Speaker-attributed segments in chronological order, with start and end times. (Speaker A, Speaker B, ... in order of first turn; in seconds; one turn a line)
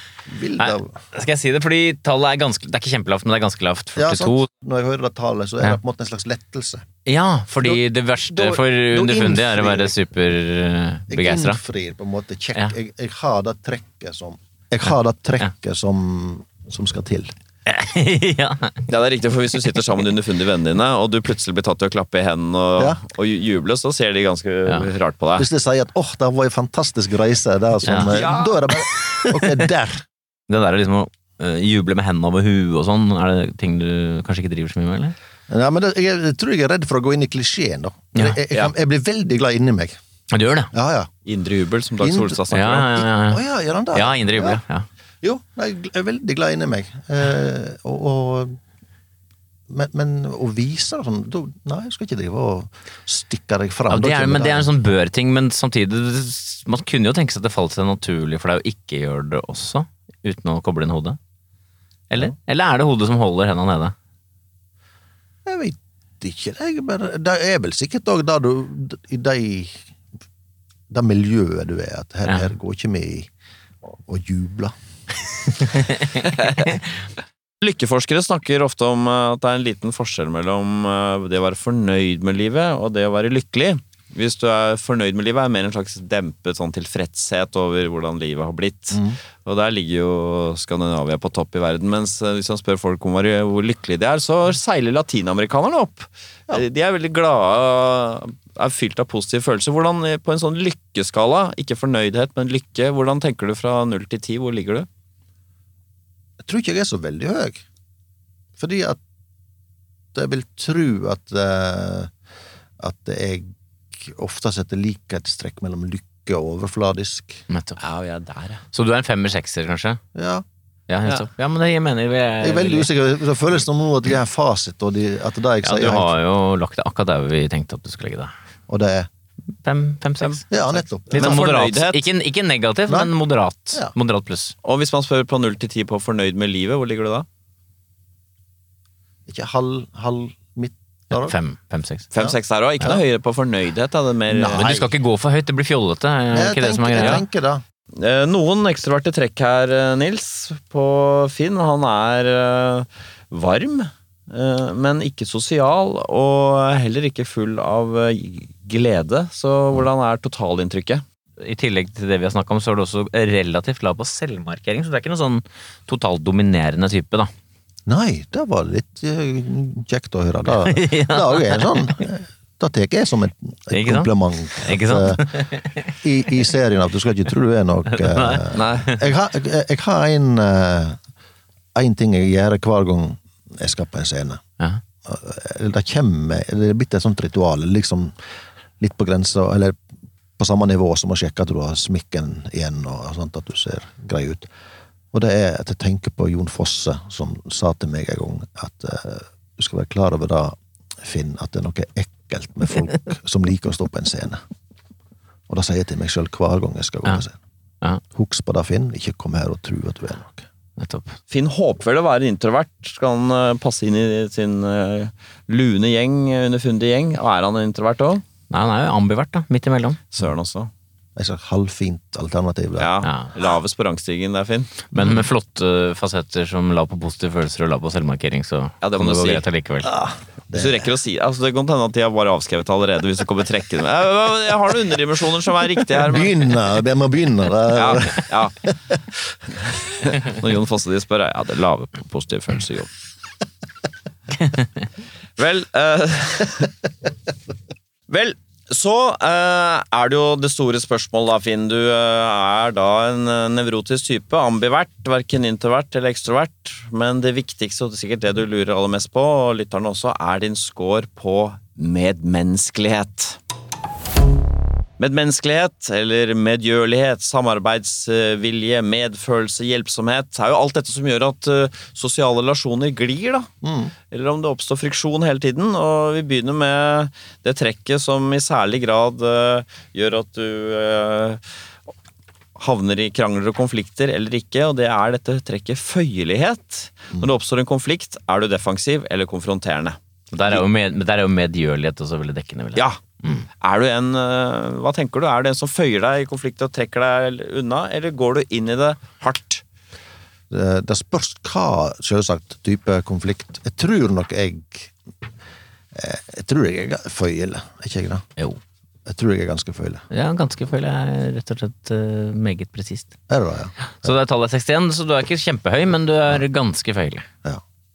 Speaker A: 0.2-1.0
Speaker B: 0.6-4.5
Speaker A: 4.0-6.8
Speaker B: 7.0-11.6
Speaker A: 7.6-10.0
Speaker A: 11.1-17.3
Speaker B: 17.6-18.9
Speaker C: 18.9-25.5
Speaker A: 25.4-30.1
Speaker B: 27.9-28.2
Speaker C: 28.0-28.7
Speaker B: 30.5-35.1
Speaker A: 35.5-40.0
Speaker B: 40.3-40.7
Speaker A: 40.7-41.1
Speaker C: 41.2-43.0
Speaker A: 42.0-44.6
Speaker B: 42.5-43.4
Speaker B: 43.9-44.9
Speaker A: 45.2-48.6
Speaker A: 49.7-54.7
Speaker B: 53.9-61.2
Speaker B: 62.1-63.9
Speaker A: 65.4-69.8
Speaker A: 70.9-73.3
Speaker A: 73.9-74.7
Speaker B: 75.7-76.2
Speaker C: 76.2-76.8
Speaker C: 77.6-104.9
Speaker A: 88.9-89.2
Speaker A: 106.4-107.6
Speaker A: 108.6-109.0
Speaker A: 110.1-112.1
Speaker A: 112.8-117.4
Speaker B: 117.5-117.8
Speaker C: 117.8-118.6
Speaker B: 118.7-120.0
Speaker A: 120.1-120.4
Speaker B: 120.9-122.9
Speaker A: 122.4-126.1
Speaker B: 125.6-128.3
Speaker A: 128.7-129.1
Speaker B: 129.6-130.4
Speaker A: 130.5-131.5
Speaker C: 131.1-132.0
Speaker B: 131.1-134.5
Speaker A: 132.9-133.1
Speaker C: 134.6-137.2
Speaker A: 139.3-141.3
Speaker B: 141.1-142.1
Speaker C: 142.1-144.8
Speaker A: 144.3-144.9
Speaker B: 144.5-147.2
Speaker A: 146.3-147.6
Speaker C: 147.9-161.0
Speaker B: 161.4-167.3
Speaker A: 167.9-175.4
Speaker B: 170.6-172.0
Speaker B: 173.7-175.9
Speaker A: 176.0-181.0
Speaker B: 177.9-179.0
Speaker C: 178.5-179.0
Speaker A: 181.7-184.4
Speaker A: 185.0-188.1
Speaker A: 188.8-189.8
Speaker A: 190.4-194.5
Speaker A: 195.1-204.4
Speaker A: 205.5-207.4
Speaker A: 208.1-210.5
Speaker B: 210.8-211.2
Speaker C: 211.3-218.2
Speaker B: 218.5-220.0
Speaker C: 220.1-220.7
Speaker A: 221.2-223.0
Speaker C: 222.8-224.9
Speaker B: 223.0-223.3
Speaker B: 224.9-229.9
Speaker C: 228.8-229.4
Speaker A: 229.8-230.9
Speaker C: 230.5-236.5
Speaker A: 236.0-238.9
Speaker C: 237.7-238.7
Speaker C: 239.8-242.9
Speaker C: 245.4-246.7
Speaker C: 248.1-263.4
Speaker C: 265.0-273.5
Speaker A: 273.6-273.9
Speaker C: 274.1-281.4
Speaker C: 282.6-290.0
Speaker B: 290.3-293.4
Speaker C: 293.6-299.6
Speaker A: 300.5-304.9
Speaker A: 305.9-308.3
Speaker A: 309.1-310.1
Speaker B: 310.1-313.1
Speaker A: 313.3-314.1
Speaker B: 313.9-317.3